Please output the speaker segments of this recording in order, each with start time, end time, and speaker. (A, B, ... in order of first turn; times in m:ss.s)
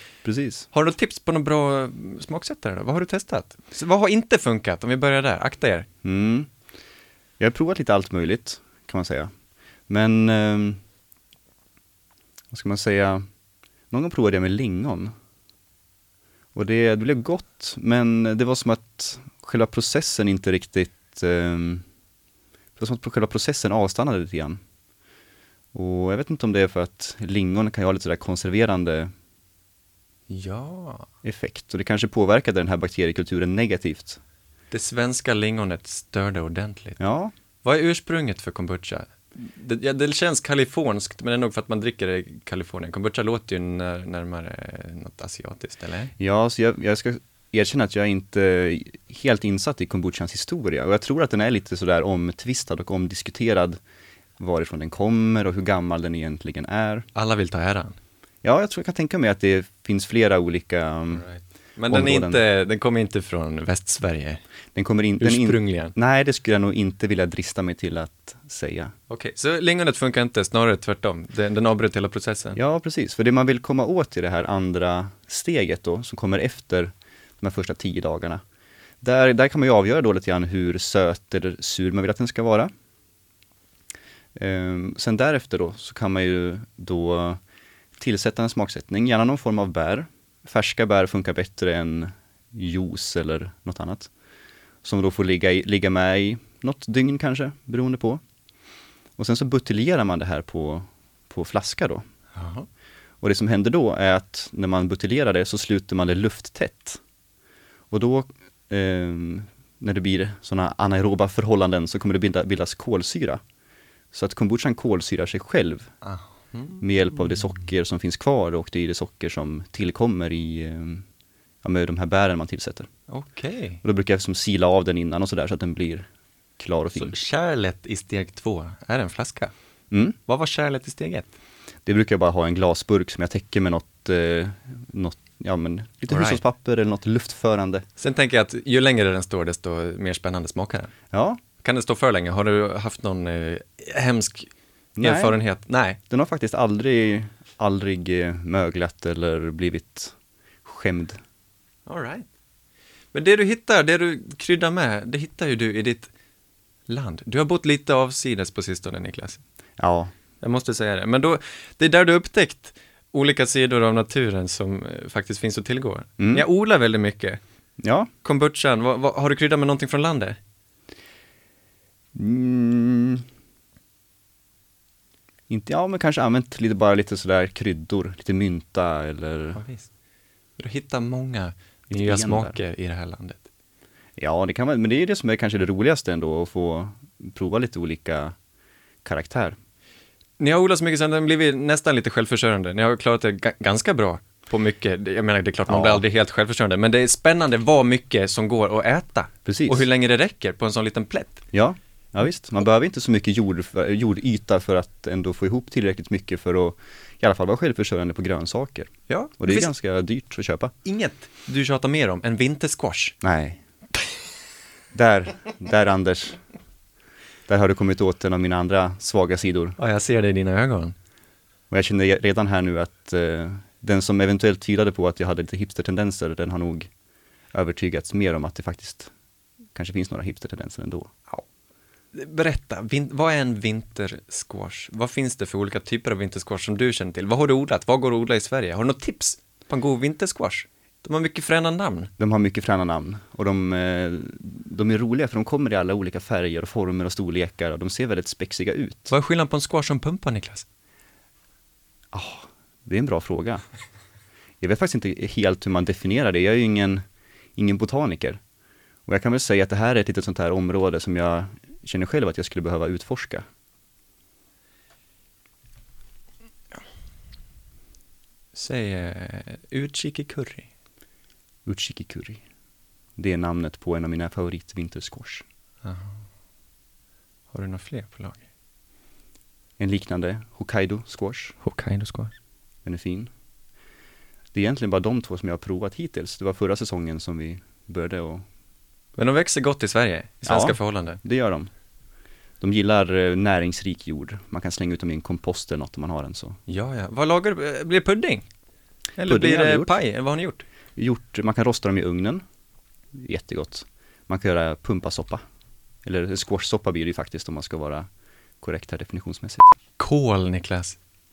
0:00.2-0:00.7 A
0:00.7-0:05.8 B
0:06.0-0:06.5 A
0:07.4-0:09.3 A
0:09.9-0:10.8 A
0:12.5-0:13.2 A
0:13.9-0:15.1 A
0:16.5-0:21.8 A
0:22.8-0:24.6 A
0:25.7-0:29.1 A
0:30.3-0:31.0 B
0:31.2-0:34.2 A
0:34.7-0:37.0 B
0:37.0-0:37.3 A
0:37.6-0:46.1 B
0:46.2-0:53.8 A
0:54.4-0:57.1 A
0:57.1-0:58.0 B
0:58.4-1:01.2 A
1:01.1-1:04.4 B
1:01.9-1:02.4 A
1:04.7-1:08.9 A
1:05.2-1:05.9 B
1:09.1-1:12.6 B
1:12.6-1:18.4 A
1:19.0-1:22.7 A
1:24.4-1:27.4 A
1:28.0-1:34.1 A
1:34.8-1:38.2 A
1:39.2-1:42.0 A
1:42.3-1:42.7 B
1:43.2-1:47.0 A
1:47.9-1:53.4 A
1:54.1-1:55.9 A
1:56.0-1:56.8 B
1:56.8-2:01.0 A
2:01.6-2:02.9 A
2:03.1-2:03.8 B
2:03.8-2:06.1 A
2:06.6-2:07.2 A
2:06.9-2:09.5 B
2:09.9-2:10.2 A
2:10.3-2:11.3 B
2:11.8-2:17.8 A
2:16.1-2:16.4 B
2:18.0-2:20.9 B
2:21.1-2:21.4 A
2:21.6-2:26.0 B
2:25.0-2:25.4 A
2:26.1-2:30.1 A
2:30.6-2:31.2 A
2:31.9-2:32.2 B
2:33.1-2:36.1 B
2:36.9-2:39.4 B
2:39.8-2:40.1 A
2:40.4-2:47.4 B
2:46.2-2:46.4 A
2:47.8-2:48.1 A
2:48.2-2:50.4 B
2:52.1-2:53.2 A
2:55.5-2:59.6 A
2:59.5-2:59.9 B
3:00.6-3:03.4 B
3:01.9-3:02.6 A
3:04.2-3:08.3 A
3:09.0-3:09.6 A
3:10.4-3:21.4 B
3:15.7-3:16.0 A
3:19.4-3:19.8 A
3:21.5-3:30.7 A
3:29.1-3:29.7 B
3:30.8-3:33.2 B
3:33.2-3:33.6 A
3:34.9-3:36.4 A
3:37.5-3:39.8 A
3:39.8-3:40.9 B
3:41.7-3:46.9 A
3:47.5-3:49.1 A
3:49.7-3:51.1 A
3:52.1-4:02.1 B
4:02.2-4:09.1 A
4:09.1-4:10.6 B
4:12.1-4:13.6 A
4:14.6-4:17.0 A
4:17.6-4:18.4 A
4:19.1-4:23.4 A
4:28.5-4:30.7 B
4:31.6-4:32.4 A
4:33.2-4:35.4 A
4:35.8-4:36.1 B
4:37.5-4:38.4 B
4:39.8-4:41.6 A
4:41.6-4:42.3 B
4:42.8-4:43.3 A
4:44.5-4:48.4 A
4:49.2-4:51.2 B
4:50.4-4:51.7 A
4:52.6-4:56.6 A
4:56.7-4:58.4 B
4:59.2-5:00.6 B
4:59.2-5:00.0 A
5:01.0-5:02.4 A
5:03.2-5:05.4 A
5:06.0-5:08.0 A
5:08.6-5:09.7 A
5:10.0-5:11.0 B